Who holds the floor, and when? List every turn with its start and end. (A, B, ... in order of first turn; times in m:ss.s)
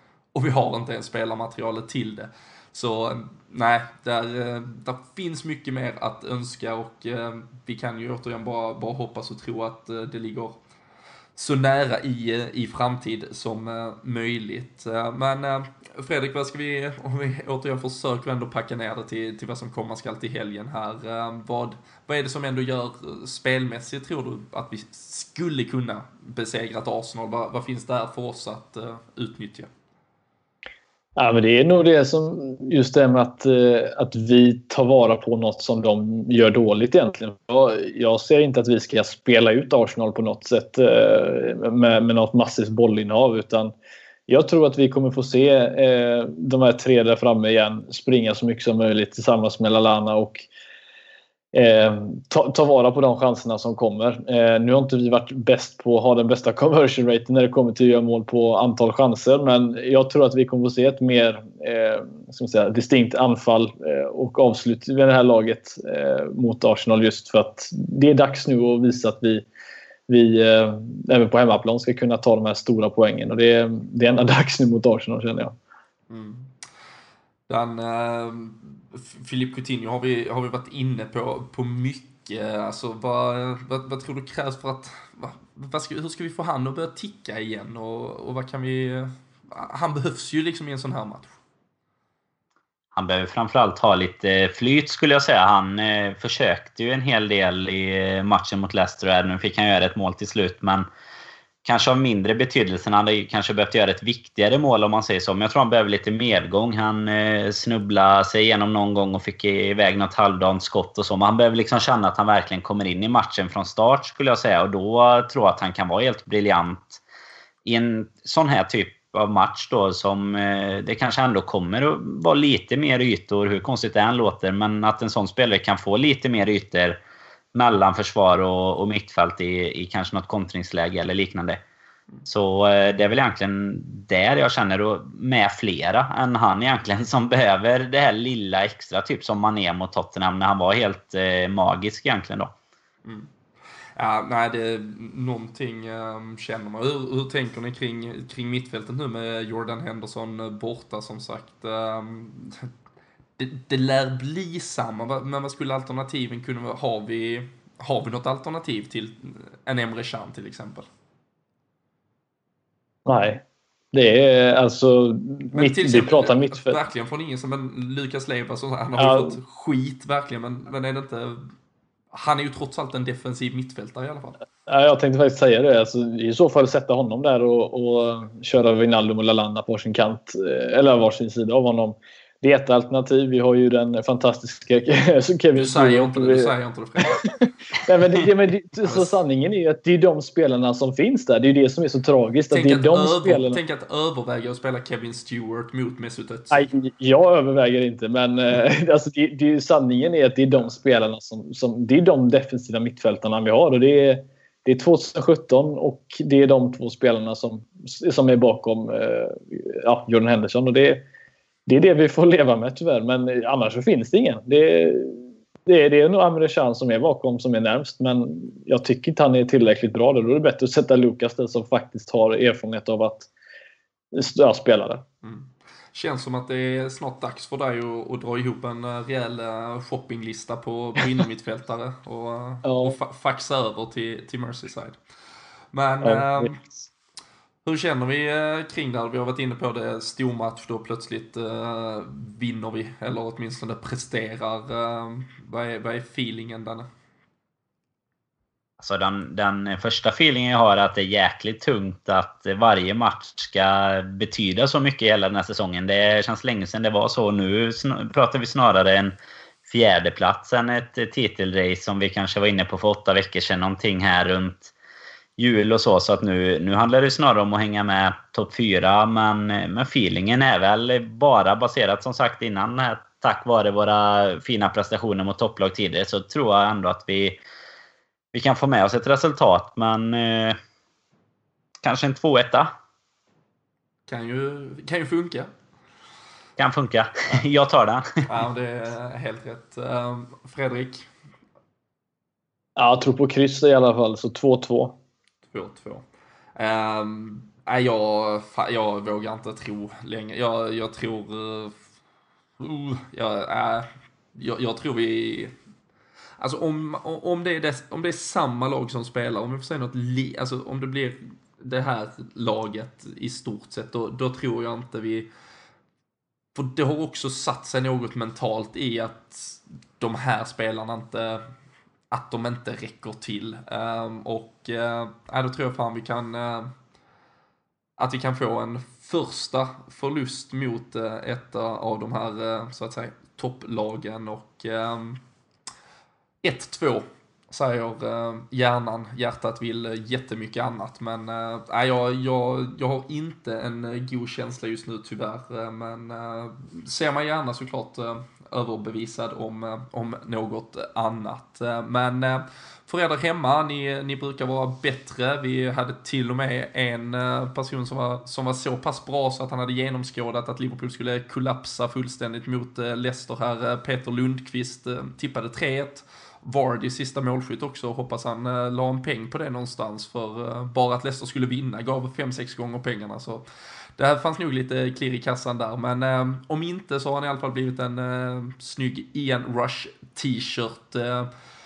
0:00.3-0:10.6 A
0:11.4-0:29.7 A
0:31.2-0:43.7 B
0:44.3-0:50.4 B
0:51.5-1:09.4 B
1:10.1-1:15.5 B
1:16.1-1:16.5 A
1:17.5-1:31.4 A
1:32.9-1:40.9 C
1:41.6-1:57.0 C
1:57.6-2:07.0 C
2:07.5-2:11.6 C
2:12.2-2:22.5 C
2:23.0-2:23.3 A
2:24.0-2:32.7 A
2:33.4-2:40.9 A
2:43.0-2:46.8 B
2:45.5-2:51.5 A
2:49.0-2:49.3 B
2:52.1-2:54.4 A
2:54.7-3:13.6 B
3:05.5-3:07.2 A
3:08.8-3:09.2 A
3:12.5-3:16.6 A
3:16.5-3:31.0 B
3:31.7-3:43.3 B
3:44.1-3:45.0 B
3:45.2-3:55.0 A
3:52.6-3:53.0 B
3:55.7-3:56.6 A
3:56.0-3:56.6 B
3:57.6-4:06.9 A
4:08.8-4:19.1 C
4:19.7-4:24.7 C
4:25.4-4:37.4 C
4:38.3-4:40.6 C
4:41.8-4:42.7 C
4:44.1-4:45.5 A
4:46.6-4:48.2 C
4:48.2-4:51.1 A
4:52.8-4:54.9 B
4:55.5-4:56.0 A
4:56.6-5:01.8 A
5:02.6-5:05.5 A
5:06.4-5:15.3 A
5:16.5-5:21.4 A
5:22.1-5:26.7 A
5:28.0-5:35.2 A
5:36.4-6:13.4 A
6:14.0-6:21.3 A